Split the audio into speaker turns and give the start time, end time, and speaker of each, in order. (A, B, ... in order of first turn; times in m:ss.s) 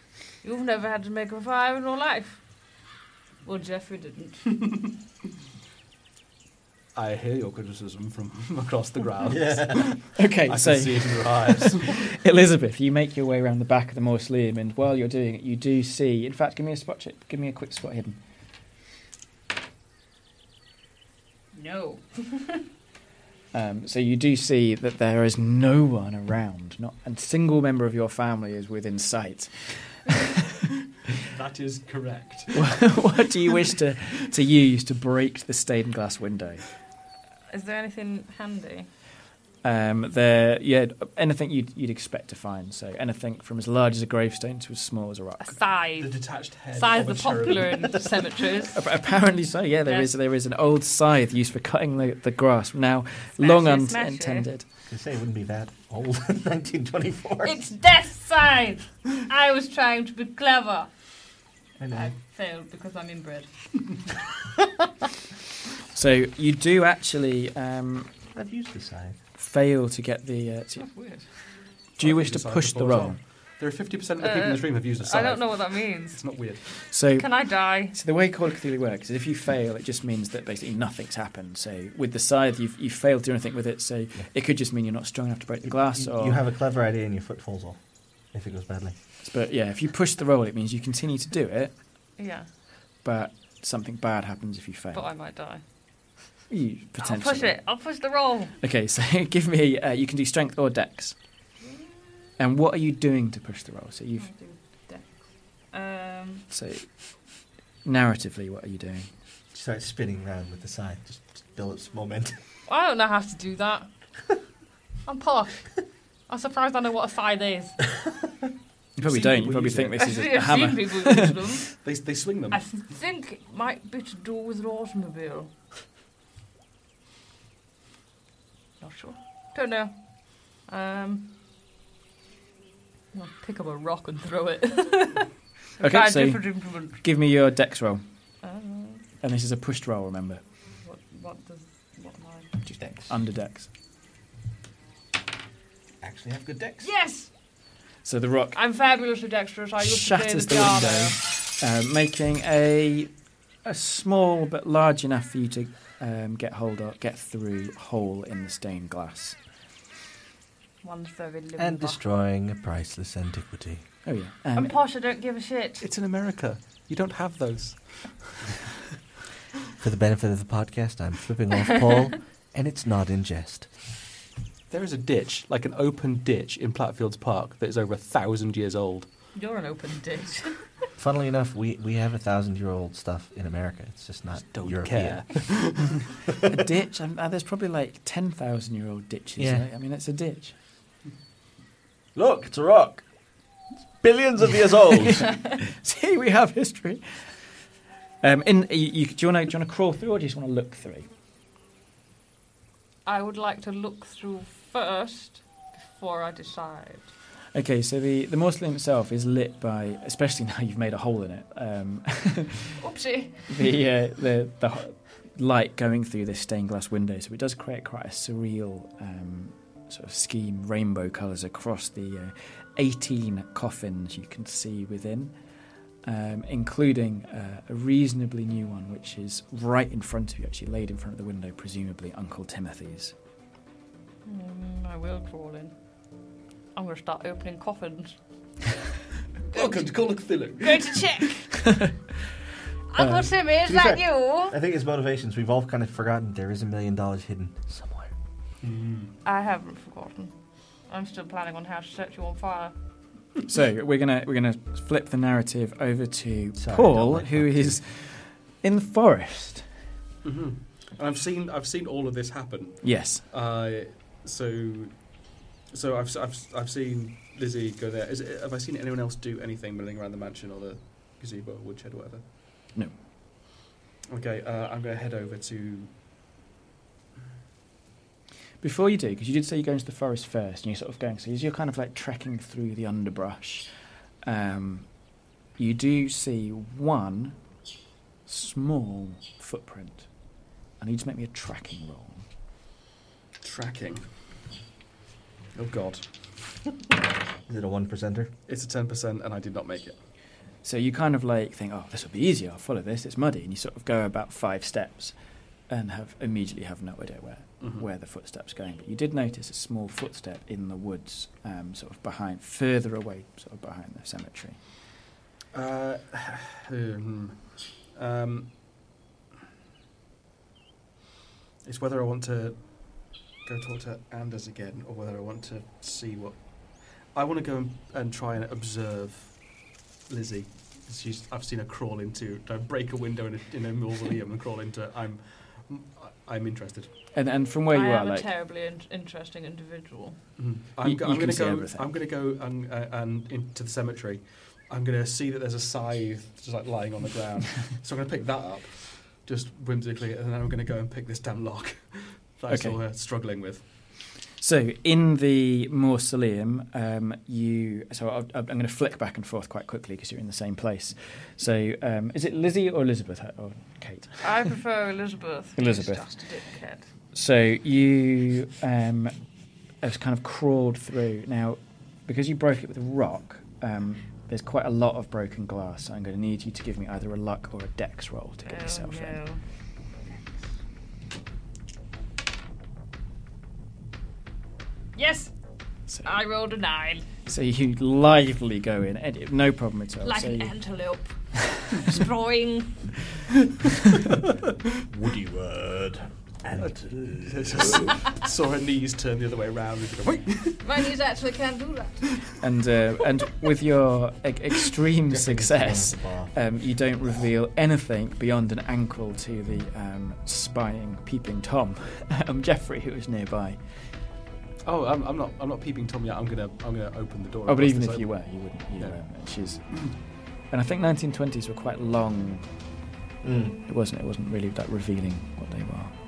0:00.4-0:02.4 A
0:03.4-0:04.5 A
0:06.9-0:12.1 B
0:09.2-0:10.0 C
0:10.1-0:18.2 D
0:21.5-0:22.6 A
0:23.5-0:30.2 D
0:31.2-0:33.0 B
0:32.5-0:36.6 D
0:37.5-0:38.9 A
0:39.6-0:45.6 D
0:45.4-0:48.8 A
0:46.0-0:48.1 B
0:48.7-0:54.6 D
0:49.8-0:50.1 A
0:53.4-0:54.5 A
0:54.9-0:57.6 C
0:57.4-1:00.9 A
1:01.8-1:02.1 C
1:01.9-1:04.0 A
1:05.9-1:08.1 D
1:08.3-1:09.2 C
1:09.4-1:10.9 D
1:10.8-1:11.3 A
1:12.0-1:16.6 B
1:12.0-1:13.2 D
1:14.2-1:16.2 A
1:16.9-1:17.3 D
1:17.1-1:17.9 A
1:17.9-1:26.4 D
1:25.6-1:28.9 C
1:29.2-1:31.8 D
1:32.2-1:32.5 A
1:33.0-1:35.0 D
1:34.9-1:35.6 A
1:36.5-1:37.6 D
1:37.0-1:38.5 A
1:38.6-1:41.2 D
1:42.4-1:44.3 D
1:44.2-1:46.4 A
1:46.5-1:47.3 D
1:47.8-1:49.1 D
1:49.5-1:52.4 C
1:52.7-1:53.9 A
1:55.0-1:55.7 A
1:56.3-1:57.8 A
1:59.0-2:01.4 D
1:59.0-2:00.0 B
2:00.0-2:01.7 A
2:01.8-2:02.6 B
2:02.5-2:05.5 A
2:08.8-2:11.3 A
2:13.1-2:17.0 A
2:15.8-2:18.0 D
2:18.4-2:19.0 A
2:19.2-2:20.4 D
2:20.8-2:22.5 A
2:22.6-2:23.1 C
2:23.1-2:23.7 D
2:26.0-2:26.9 C
2:26.8-2:27.3 A
2:28.0-2:28.6 D
2:28.5-2:31.2 A
2:29.8-2:33.1 D
2:33.6-2:39.4 D
2:40.8-2:42.0 A
2:41.6-2:43.8 C
2:44.0-2:44.8 D
2:44.6-2:45.8 A
2:45.8-2:48.5 B
2:49.8-2:53.7 C
2:54.7-2:59.1 B
2:59.3-3:00.8 A
3:01.0-3:06.0 C
3:04.4-3:06.0 B
3:06.5-3:10.5 D
3:09.4-3:09.7 C
3:12.1-3:13.0 C
3:14.0-3:15.3 C
3:15.2-3:17.2 D
3:18.2-3:21.1 D
3:23.0-3:27.1 A
3:27.5-3:32.8 D
3:32.8-3:33.5 A
3:33.5-3:45.3 D
3:46.0-3:53.1 D
3:54.2-3:55.7 A
3:56.7-3:58.2 A
3:59.5-3:59.9 A
3:59.5-4:01.2 B
4:00.6-4:01.6 A
4:01.6-4:01.9 D
4:02.9-4:04.6 A
4:03.0-4:03.3 D
4:03.6-4:08.1 C
4:08.6-4:09.1 B
4:09.2-4:10.3 A
4:10.9-4:12.7 A
4:13.5-4:19.6 D
4:16.6-4:17.8 C
4:20.2-4:32.2 B
4:22.8-4:23.2 D
4:34.1-4:35.9 B
4:38.6-4:43.7 D
4:44.2-4:44.9 D
4:45.6-4:47.4 D
4:48.2-4:50.1 D
4:50.8-4:52.2 D
4:53.4-4:54.1 B
4:55.5-4:56.1 B
4:57.5-4:58.3 C
4:58.5-5:00.0 B
5:00.6-5:05.1 D
5:05.7-5:14.6 D
5:07.6-5:07.8 B
5:15.5-5:18.6 B
5:21.6-5:29.5 B
5:30.1-5:36.9 B
5:37.1-5:38.3 D
5:37.7-5:40.2 A
5:40.4-5:53.6 B
5:40.8-5:41.9 D
5:52.5-5:52.8 D
5:54.4-6:04.5 D
6:04.2-6:06.8 A
6:05.6-6:06.1 D
6:07.1-6:09.1 D
6:09.8-6:19.2 D
6:18.4-6:19.4 A
6:24.9-6:25.3 A
6:25.9-6:26.2 D
6:26.0-6:27.0 A
6:27.3-6:30.5 D
6:30.0-6:32.8 A
6:35.0-6:37.8 C
6:36.6-6:40.6 B
6:40.6-6:42.2 A
6:42.4-6:53.6 D
6:45.1-6:46.3 C
6:54.6-6:58.1 B
6:57.5-7:00.0 D
7:00.5-7:02.5 D
7:03.2-7:03.6 C
7:03.6-7:05.9 D